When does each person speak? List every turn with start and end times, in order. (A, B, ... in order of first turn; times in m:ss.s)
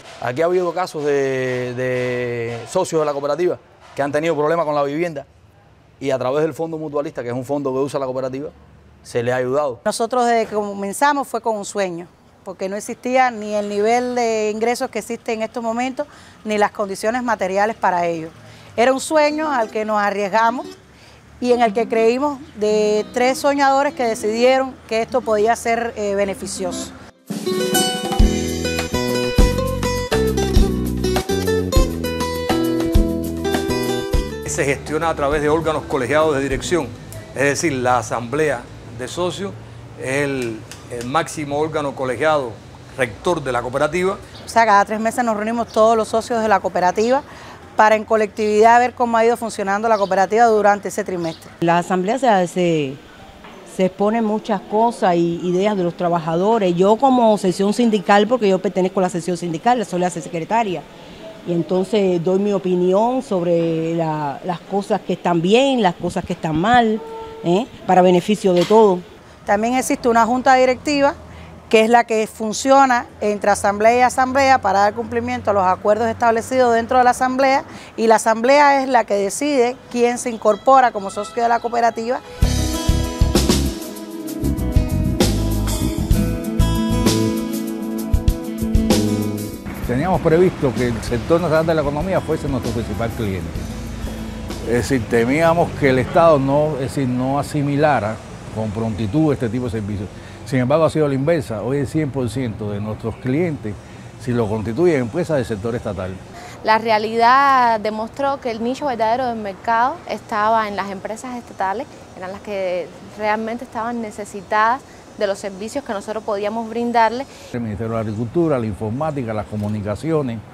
0:00.2-0:05.3 A
0:06.0-0:08.5 A
0:09.0-0:09.8 A
0:09.9-0:20.7 B
0:21.4-0:26.9 B
0:34.4-0:44.2 C
0:44.5-0:47.2 B
0:47.8-0:51.5 B
0:51.6-0:53.0 D
0:53.7-1:00.9 D
1:01.4-1:09.0 D
1:09.5-1:11.2 B
1:11.7-1:22.2 B
1:29.8-1:33.7 E
1:34.6-1:46.2 E
1:46.6-1:57.3 F
1:57.5-2:00.4 E